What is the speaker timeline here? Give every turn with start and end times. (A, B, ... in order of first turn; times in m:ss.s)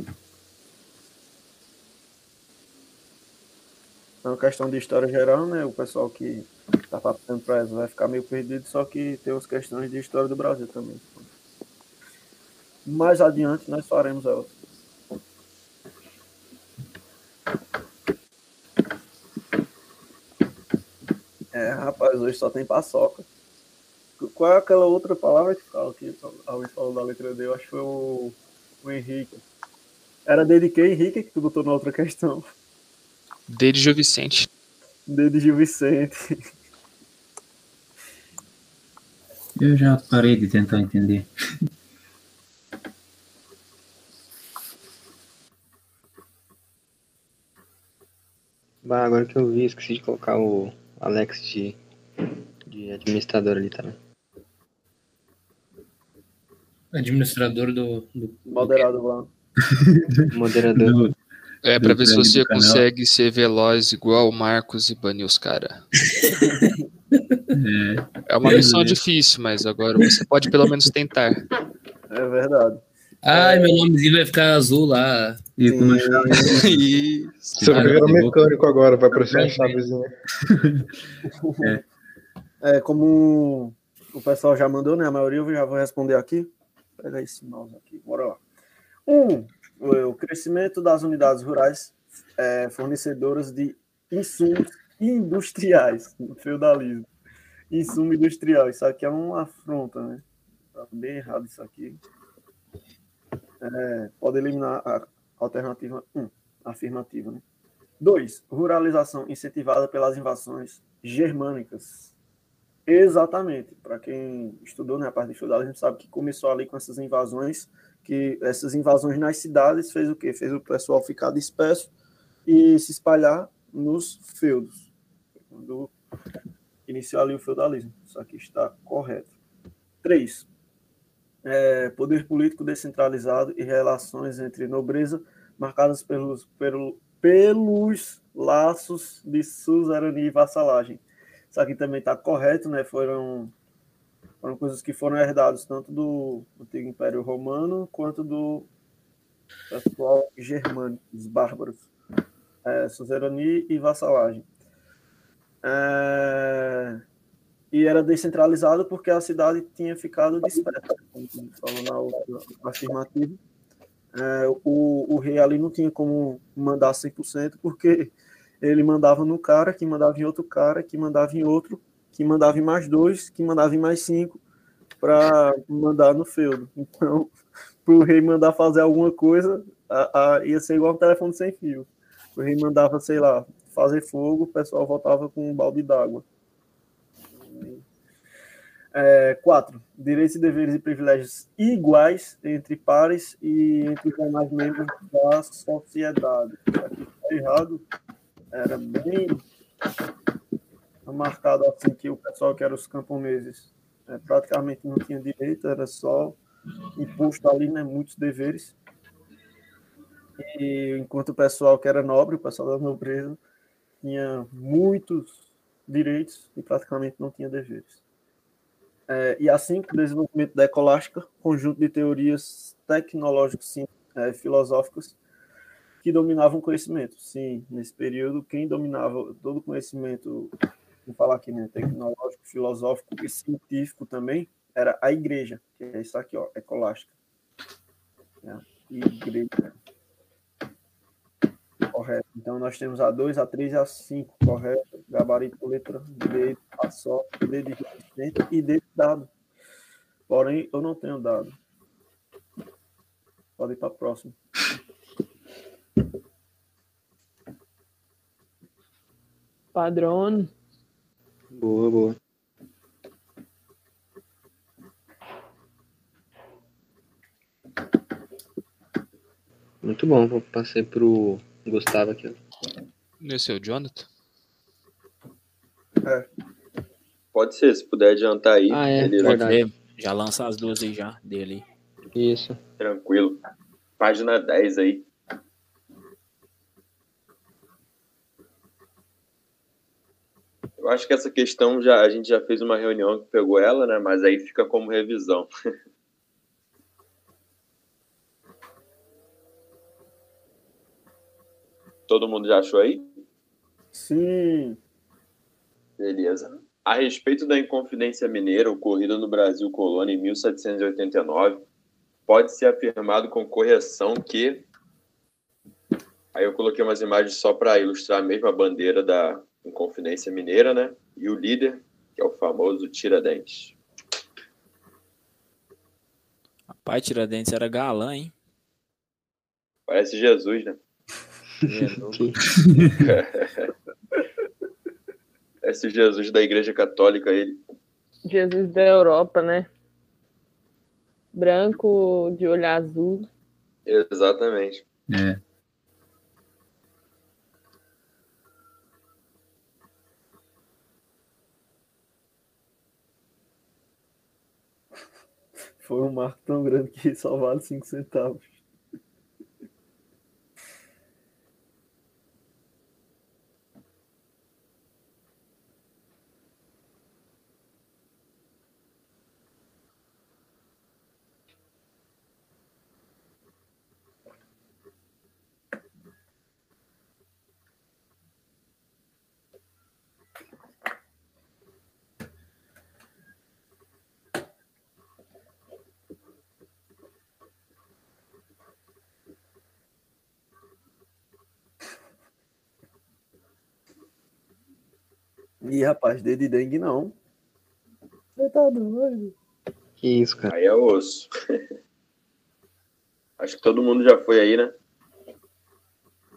0:04.2-0:11.3 A
0:12.8-0:14.5 A
0:21.5-0:23.2 A
0:24.2-0:29.4 A
0:30.3-0:32.5 A
0:33.5-0:34.5 B
0:35.1-0:36.4 A
0:39.6-0:41.3 C
0:48.8-0:51.8 D
0:52.7-0:54.0 D
0:56.9-0:58.9 E
0:58.4-0:59.3 A
0:59.7-1:00.2 C
1:00.3-1:01.0 D
1:00.7-1:01.1 C
1:01.6-1:05.8 B
1:01.8-1:02.8 C
1:07.5-1:09.0 C
1:08.3-1:11.4 B
1:12.1-1:13.8 A
1:13.2-1:15.4 E
1:15.6-1:16.8 C
1:15.7-1:16.6 A
1:16.5-1:18.0 B
1:17.6-1:20.1 F
1:17.6-1:18.4 C
1:19.1-1:19.8 C
1:20.5-1:20.9 C
1:21.3-1:21.8 A
1:22.6-1:28.4 A
1:29.0-1:37.1 A
1:37.7-1:40.2 A
1:40.7-1:42.0 A
1:43.6-1:47.4 A
1:48.0-1:52.1 A
1:52.9-2:01.9 A
2:02.4-2:04.9 A
2:05.5-2:05.9 A
2:06.9-2:09.3 A
2:10.0-2:10.5 A
2:11.4-2:23.5 A
2:24.4-2:28.7 A
2:29.7-2:31.8 A
2:32.6-2:34.4 A
2:35.6-2:37.0 A
2:37.7-2:43.4 A
2:44.1-2:54.4 A
2:55.0-2:57.3 A
2:57.8-3:06.2 A
3:07.3-3:07.8 A
3:08.9-3:17.8 A
3:18.5-3:19.4 A
3:21.0-3:26.4 A
3:27.0-3:28.7 A
3:30.4-3:33.4 A
3:34.0-3:35.4 A
3:35.9-3:38.0 A
3:39.1-3:45.2 A
3:46.0-3:50.5 A
3:51.0-3:57.1 A
3:58.4-3:59.7 A
4:01.9-4:09.3 A
4:10.3-4:11.6 A
4:13.6-4:14.4 A
4:19.7-4:20.5 G
4:21.5-4:22.2 D
4:29.8-4:32.4 D
4:33.2-4:34.1 B
4:36.0-4:36.3 A
4:37.3-4:39.4 H
4:38.7-4:39.6 D
4:39.2-4:41.6 I
4:42.1-4:42.6 D
4:42.8-4:43.4 H
4:44.0-4:45.0 H
4:50.8-4:55.5 H
5:02.1-5:03.2 H
5:03.9-5:04.8 A
5:06.0-5:11.6 H
5:12.3-5:14.6 H
5:16.3-5:23.8 H
5:26.7-5:28.3 I
5:29.9-5:30.8 H
5:31.6-5:32.3 I
5:31.7-5:32.4 D
5:33.0-5:33.7 H
5:35.6-5:37.6 H
5:38.3-5:39.7 G
5:41.3-5:43.3 G
5:43.9-5:44.8 H
5:45.1-5:45.4 C
5:55.8-5:58.6 A
6:35.6-6:37.1 A
6:38.4-6:39.3 A
6:40.0-6:40.5 D
6:40.5-6:41.3 H
6:43.4-6:44.7 H